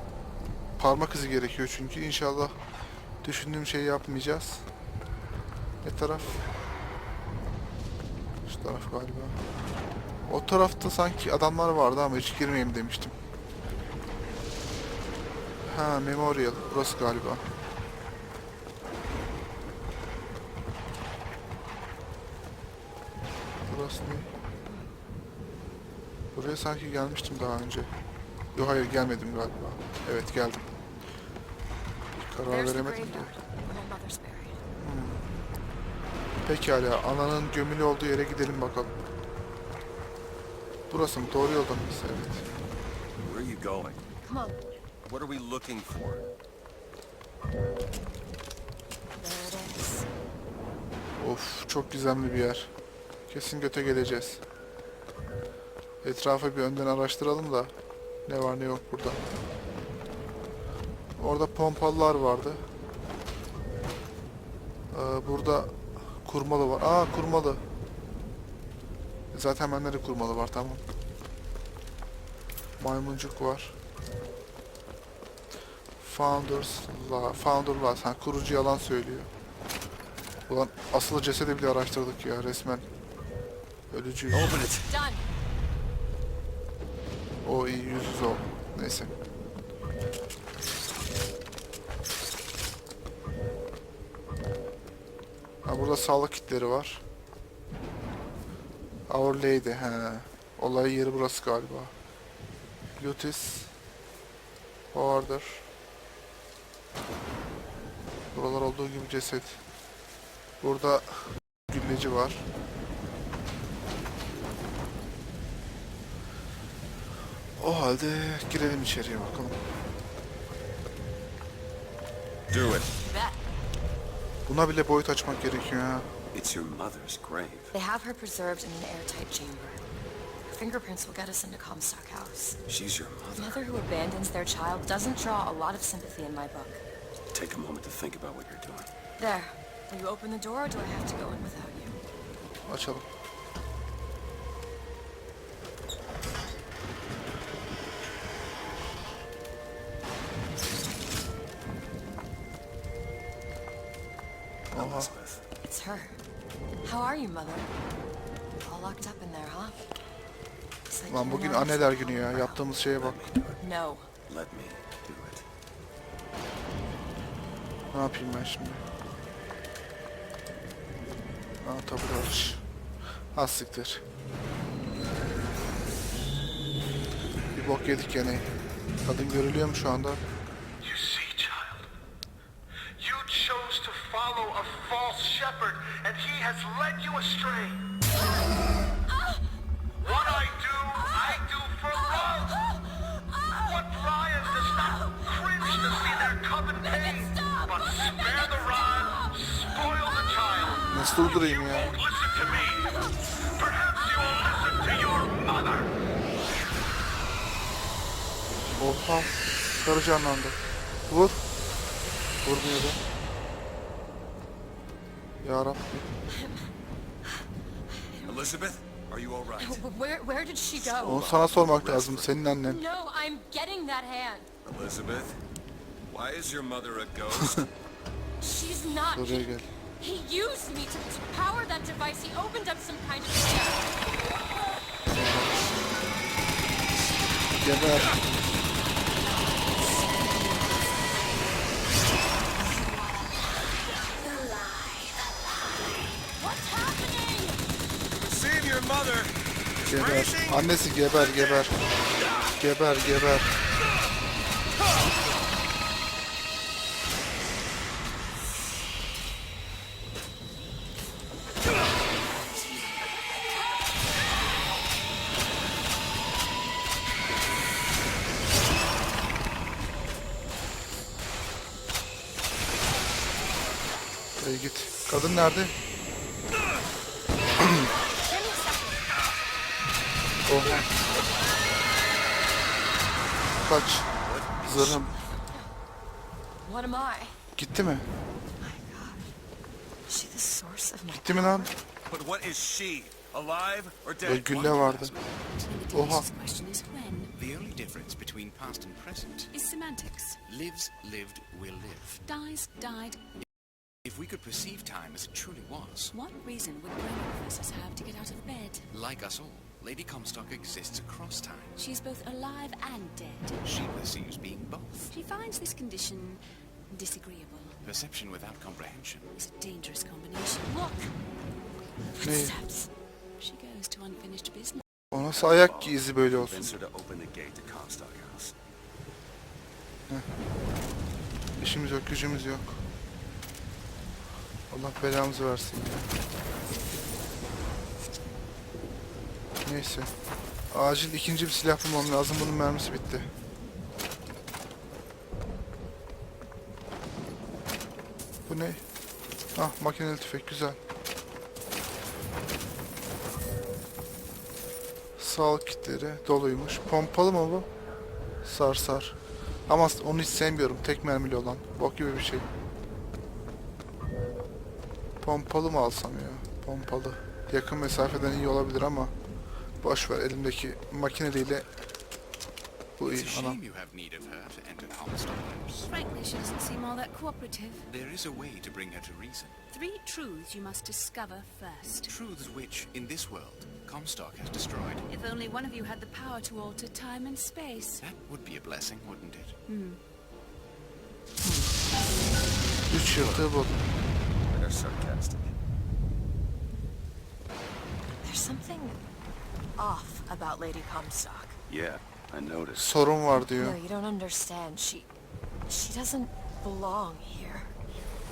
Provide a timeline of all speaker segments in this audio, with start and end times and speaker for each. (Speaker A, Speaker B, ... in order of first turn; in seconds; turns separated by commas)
Speaker A: 0.8-2.5, Speaker A: 3.2-4.6, Speaker A: 5.8-6.4, Speaker A: 8.4-9.4, Speaker A: 10.2-13.2, Speaker A: 15.6-17.4, Speaker A: 23.7-24.3, Speaker B: 24.6-24.9, Speaker A: 26.3-27.9, Speaker A: 28.5-30.7, Speaker A: 32.1-33.3, Speaker B: 32.5-34.6, Speaker A: 34.8-35.2, Speaker A: 36.4-38.9, Speaker A: 40.9-42.4, Speaker C: 43.2-44.0, Speaker B: 44.2-44.6, Speaker C: 45.0-46.3, Speaker B: 49.2-50.1, Speaker A: 51.2-52.7, Speaker A: 53.3-54.4, Speaker A: 56.0-57.7, Speaker A: 58.3-59.2, Speaker A: 61.2-62.6, Speaker A: 64.9-67.6, Speaker A: 69.3-70.8, Speaker A: 72.8-73.7, Speaker A: 76.0-79.3, Speaker A: 80.5-82.8, Speaker A: 83.9-84.6, Speaker C: 84.3-84.9, Speaker B: 84.8-85.2, Speaker A: 87.4-89.1, Speaker A: 95.6-97.0, Speaker A: 99.1-101.9, Speaker A: 103.0-103.7, Speaker A: 104.9-105.6, Speaker A: 108.3-109.6, Speaker A: 110.6-112.4, Speaker A: 117.6-119.6, Speaker C: 122.5-122.9, Speaker B: 123.0-123.4, Speaker A: 124.5-126.1, Speaker C: 126.3-127.7, Speaker B: 127.7-129.8, Speaker B: 130.5-132.6, Speaker C: 132.7-133.7, Speaker B: 133.3-136.8, Speaker C: 137.3-138.9, Speaker B: 139.2-142.0, Speaker A: 142.7-143.1, Speaker A: 154.7-155.1, Speaker C: 154.7-155.4, Speaker B: 155.7-156.2, Speaker B: 156.8-157.7, Speaker B: 158.6-159.8, Speaker B: 160.9-162.6, Speaker A: 161.1-163.2, Speaker C: 163.0-163.6, Speaker B: 163.6-164.1, Speaker C: 164.3-165.4, Speaker A: 167.9-168.8, Speaker A: 171.6-172.6, Speaker A: 173.3-174.0, Speaker A: 177.5-178.5, Speaker A: 179.0-180.2, Speaker D: 180.8-181.9, Speaker D: 183.0-187.8, Speaker B: 189.1-189.4, Speaker D: 190.0-192.6, Speaker B: 190.0-190.5, Speaker B: 191.1-191.4, Speaker B: 191.9-196.2, Speaker D: 193.5-205.9, Speaker B: 196.8-199.4, Speaker A: 200.9-201.9, Speaker A: 208.8-210.6, Speaker A: 211.1-211.4, Speaker A: 212.4-213.0, Speaker A: 215.4-216.0, Speaker B: 216.3-216.7, Speaker B: 217.9-218.4, Speaker C: 218.2-219.8, Speaker B: 219.6-221.2, Speaker C: 220.7-222.4, Speaker A: 221.0-222.8, Speaker B: 222.7-224.5, Speaker C: 224.6-225.4, Speaker C: 226.1-227.7, Speaker A: 227.4-227.7, Speaker B: 228.4-233.9, Speaker A: 229.1-229.7, Speaker A: 235.1-235.6, Speaker A: 237.6-238.2, Speaker B: 238.6-241.2, Speaker E: 244.1-245.8, Speaker B: 246.3-247.6, Speaker C: 248.2-250.7, Speaker A: 249.9-251.7, Speaker A: 252.5-253.5, Speaker A: 274.4-275.7, Speaker A: 277.6-277.9, Speaker B: 278.2-279.0, Speaker A: 280.5-280.9, Speaker A: 283.6-284.1, Speaker C: 284.2-285.0, Speaker A: 284.6-285.1, Speaker B: 285.1-285.7, Speaker B: 286.6-287.3, Speaker A: 287.6-288.1, Speaker B: 288.6-289.3, Speaker B: 290.1-291.7, Speaker A: 291.1-291.7, Speaker C: 292.1-294.7, Speaker A: 294.2-295.1, Speaker F: 294.5-295.2, Speaker E: 295.2-297.3, Speaker A: 295.9-296.3, Speaker F: 297.3-299.5, Speaker E: 299.5-300.4, Speaker F: 300.4-302.2, Speaker E: 302.2-303.3, Speaker F: 304.0-306.1, Speaker E: 306.1-308.9, Speaker F: 308.9-311.8, Speaker E: 311.8-313.6, Speaker F: 313.6-315.1, Speaker E: 315.1-317.8, Speaker F: 317.8-319.3, Speaker E: 319.4-320.9, Speaker B: 320.7-321.1, Speaker B: 322.2-322.9, Speaker A: 322.2-322.6, Speaker E: 323.4-324.8, Speaker A: 325.1-326.7, Speaker C: 325.2-328.5, Speaker A: 331.6-332.8, Speaker A: 334.7-336.1, Speaker A: 339.6-340.1, Speaker A: 340.7-343.3, Speaker A: 348.5-348.8, Speaker A: 349.5-350.8, Speaker A: 355.2-357.7, Speaker A: 358.4-359.1, Speaker A: 359.7-362.5, Speaker A: 365.2-369.1, Speaker A: 369.8-371.7, Speaker A: 373.0-373.6, Speaker F: 373.1-375.9, Speaker E: 375.8-377.9, Speaker F: 377.9-379.6, Speaker E: 379.7-382.1, Speaker F: 382.1-385.1, Speaker E: 385.1-388.0, Speaker F: 388.0-389.6, Speaker E: 389.7-390.0, Speaker A: 391.4-391.7, Speaker A: 392.9-393.8, Speaker C: 394.5-395.5, Speaker B: 398.2-399.0, Speaker B: 399.8-401.6, Speaker C: 401.7-402.9, Speaker A: 402.7-403.8, Speaker B: 403.4-405.1, Speaker B: 405.7-407.7